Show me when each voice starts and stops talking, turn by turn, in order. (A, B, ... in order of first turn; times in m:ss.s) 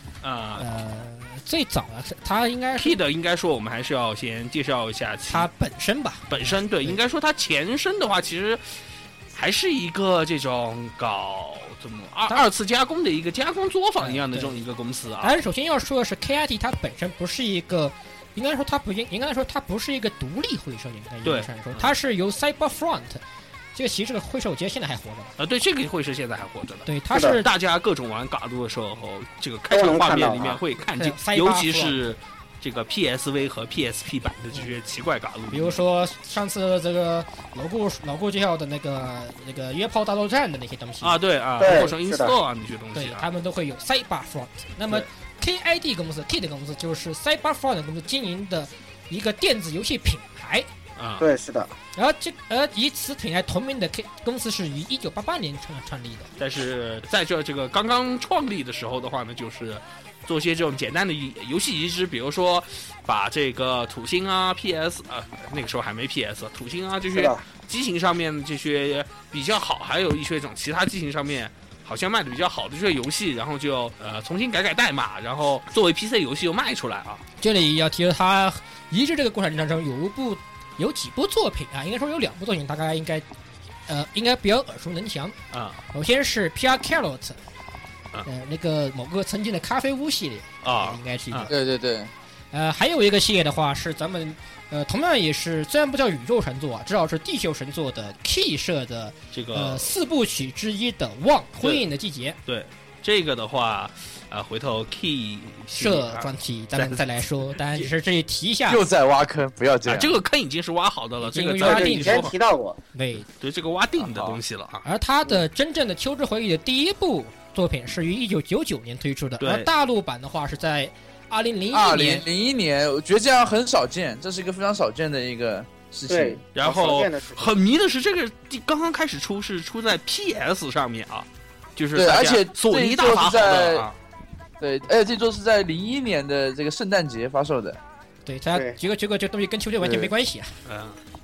0:00.2-0:00.6 A
0:00.6-0:02.9 B
0:02.8-0:05.5 A
0:05.3-0:07.0 B
0:06.3-0:08.6 A
0:09.3-0:15.3 A
0:14.0-0:14.6 B
0:15.2-0:23.2 B
0:21.2-0:21.9 A
0:23.7-0:25.3 B
0:25.4-0:35.8 A
0:26.8-0:27.5 B
0:27.1-0:27.4 C
0:29.7-0:30.6 C
0:31.0-0:32.1 B
0:35.5-0:41.2 B
0:41.0-0:43.2 A
0:41.6-0:42.4 C
0:42.9-0:50.7 B
0:51.0-0:51.2 A
0:51.2-0:51.7 C
0:52.0-0:56.3 B
0:56.4-1:17.2 A
1:07.1-1:07.4 C
1:17.4-1:23.2 B
1:23.9-1:25.3 B
1:25.5-1:25.8 A
1:25.9-1:27.4 B
1:28.2-1:31.5 B
1:30.6-1:31.5 A
1:31.5-1:32.1 D
1:32.5-1:42.4 B
1:39.3-1:39.9 A
1:42.5-1:47.0 A
1:45.7-1:48.8 B
1:48.7-1:50.2 D
1:49.8-1:52.3 A
1:51.2-1:52.3 B
1:51.6-1:52.8 C
1:52.9-1:53.3 B
1:53.3-1:54.8 A
1:54.0-1:54.4 D
1:54.8-2:02.2 B
1:59.4-1:59.7 A
2:01.7-2:06.4 D
2:06.1-2:07.5 C
2:06.5-2:13.9 A
2:11.9-2:13.9 D
2:14.6-2:17.8 D
2:18.2-2:20.5 B
2:18.5-2:18.8 C
2:20.6-2:21.0 A